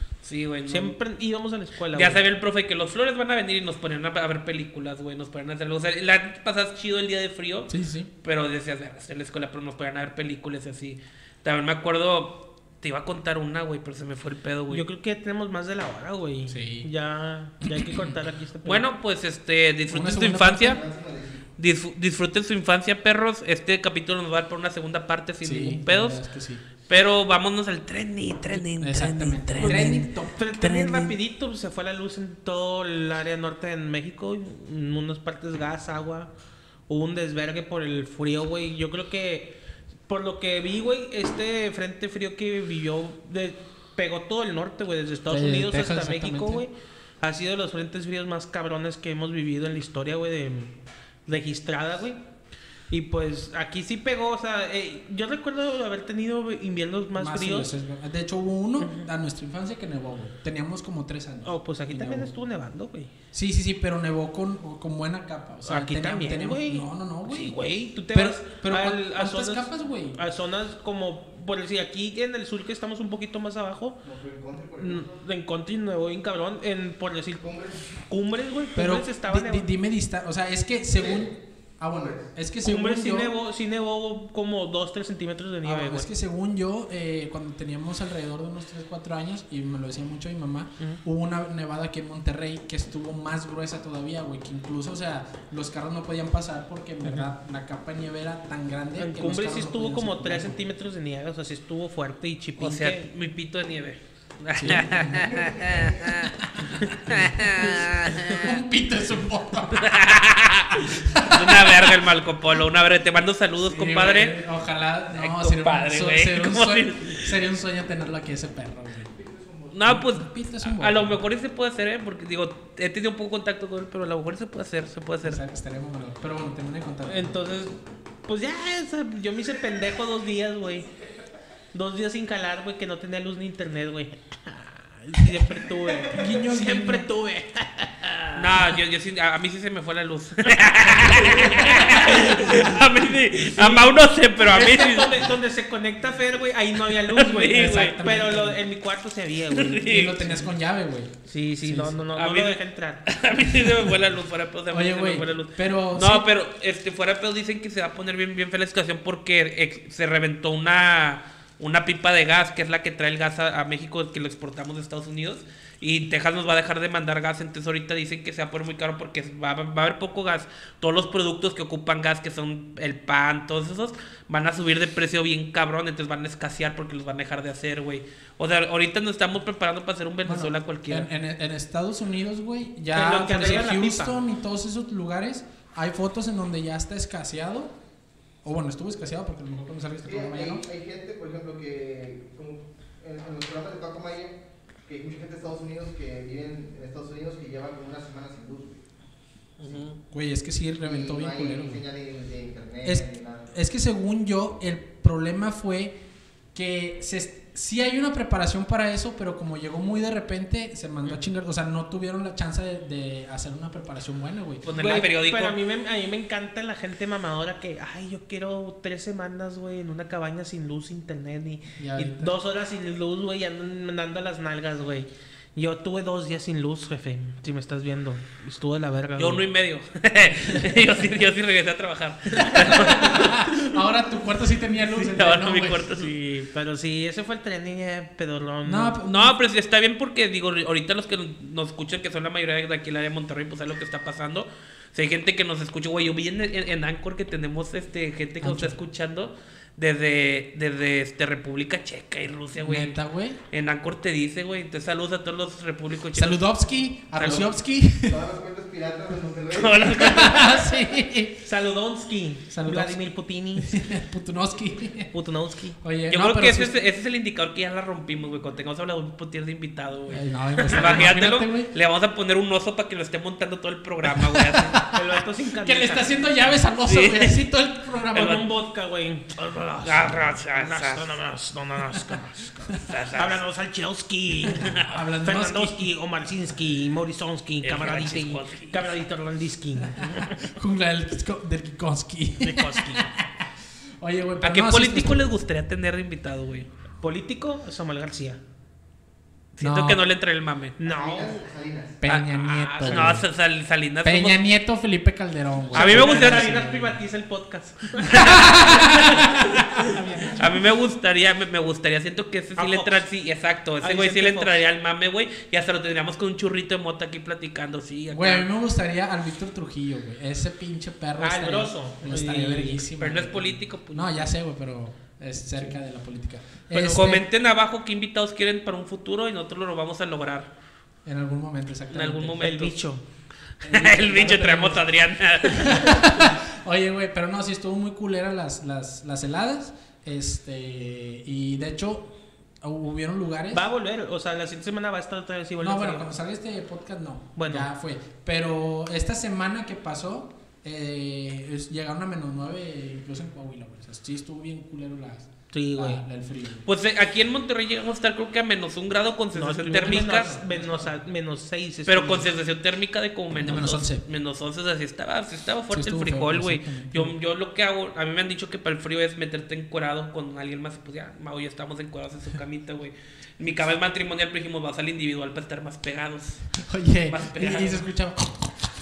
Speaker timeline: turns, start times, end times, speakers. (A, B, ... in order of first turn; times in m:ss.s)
0:00.2-0:01.0 A
0:00.7-0:02.2 B
0:01.9-0:14.8 A
0:07.7-0:08.1 C
0:14.7-0:18.8 B
0:16.5-0:16.9 C
0:17.6-0:18.1 C
0:18.6-0:20.8 A
0:19.9-0:20.8 C
0:20.6-0:21.4 D
0:21.6-0:26.2 A
0:25.4-0:26.6 C
0:26.9-0:30.1 A
0:28.5-0:30.5 C
0:29.6-0:36.3 B
0:30.6-0:31.1 A
0:36.9-0:50.8 B
0:45.3-0:46.7 C
0:51.3-0:52.2 B
0:52.9-0:57.7 B
0:57.2-1:02.3 C
0:58.8-0:59.1 B
1:01.4-1:03.1 B
1:03.3-1:07.6 C
1:05.6-1:14.0 B
1:08.1-1:10.2 C
1:14.0-1:15.2 D
1:14.8-1:19.7 B
1:17.4-1:17.8 D
1:18.8-1:23.3 C
1:21.0-1:21.3 D
1:21.9-1:22.3 D
1:22.6-1:26.1 B
1:25.6-1:40.6 C
1:39.0-1:43.1 B
1:42.6-1:46.4 A
1:44.6-1:45.5 C
1:45.3-1:46.0 D
1:46.4-1:47.7 C
1:46.8-1:48.4 B
1:47.1-1:48.4 A
1:48.4-1:50.0 C
1:49.7-1:54.4 A
1:50.7-1:51.7 C
1:53.6-1:59.1 C
1:55.2-1:57.4 A
1:59.1-1:59.7 D
1:59.7-2:05.4 A
1:59.8-2:01.2 C
2:05.2-2:07.4 C
2:07.0-2:10.9 B
2:11.7-2:18.6 B
2:16.1-2:17.1 C
2:18.4-2:25.2 A
2:21.0-2:29.8 B
2:27.1-2:28.0 A
2:27.5-2:28.6 C
2:29.5-2:30.4 A
2:29.8-2:32.0 C
2:31.3-2:33.0 B
2:32.1-3:01.1 A
2:34.7-2:36.3 C
3:00.2-3:07.8 C
3:02.9-3:04.2 B
3:08.4-3:10.6 C
3:10.0-3:18.8 D
3:19.6-3:20.0 A
3:20.1-3:21.8 C
3:20.8-3:23.5 D
3:22.8-3:26.0 C
3:26.5-3:34.6 C
3:34.6-3:35.6 A
3:34.7-3:49.5 B
3:41.8-3:42.3 C
3:49.2-3:53.8 A
3:50.5-3:50.8 C
3:52.5-3:55.9 C
3:54.9-3:56.1 A
3:56.0-3:59.0 B
3:58.6-3:59.4 C
3:59.0-4:13.0 A
4:08.4-4:08.8 C
4:12.6-4:13.4 C
4:13.5-4:16.4 A
4:16.1-4:18.3 C
4:17.2-4:17.5 A
4:18.0-4:20.5 D
4:19.5-4:20.6 A
4:19.9-4:21.4 C
4:21.4-4:23.8 B
4:22.5-4:23.1 C
4:23.6-4:25.1 C
4:25.1-4:25.8 B
4:25.8-4:26.8 C
4:26.1-4:34.9 A
4:30.1-4:31.7 C
4:34.2-4:35.0 C
4:34.9-4:36.1 B
4:35.6-4:38.4 C
4:36.9-4:37.4 A
4:38.1-4:38.4 A
4:38.1-4:50.4 B
4:39.8-4:41.1 A
4:42.7-4:43.4 A
4:44.5-4:45.0 A
4:44.7-4:45.9 C
4:47.6-4:49.0 A
4:50.0-4:53.5 C
4:52.4-4:53.1 B
4:54.0-4:55.2 C
4:54.4-4:56.7 A
4:57.0-4:58.4 B
4:59.6-5:00.8 A
4:59.6-5:00.0 C
5:00.8-5:01.4 B
5:00.8-5:02.0 D
5:02.0-5:03.3 C
5:02.0-5:04.4 A
5:02.4-5:03.2 B
5:04.0-5:07.0 C
5:05.7-5:06.6 A
5:05.7-5:09.8 B
5:08.1-5:10.7 C
5:08.1-5:09.3 A
5:10.3-5:18.5 A
5:12.6-5:13.0 B
5:13.8-5:14.5 B
5:18.1-5:27.3 C
5:21.2-5:22.9 B
5:23.0-5:24.2 A
5:26.7-5:30.5 A
5:31.0-5:32.5 C
5:31.9-5:32.8 A
5:32.4-5:33.0 B
5:33.6-5:36.3 A
5:33.6-5:34.8 C
5:35.4-5:43.7 C
5:43.5-5:46.1 B
5:45.6-5:56.7 C
5:47.4-5:47.7 B
5:55.5-5:56.0 B
5:56.6-6:00.4 A
5:59.3-6:02.3 B
5:59.8-6:01.0 C
6:01.9-6:17.9 A
6:03.4-6:04.0 C
6:05.7-6:07.1 C
6:16.6-6:18.7 C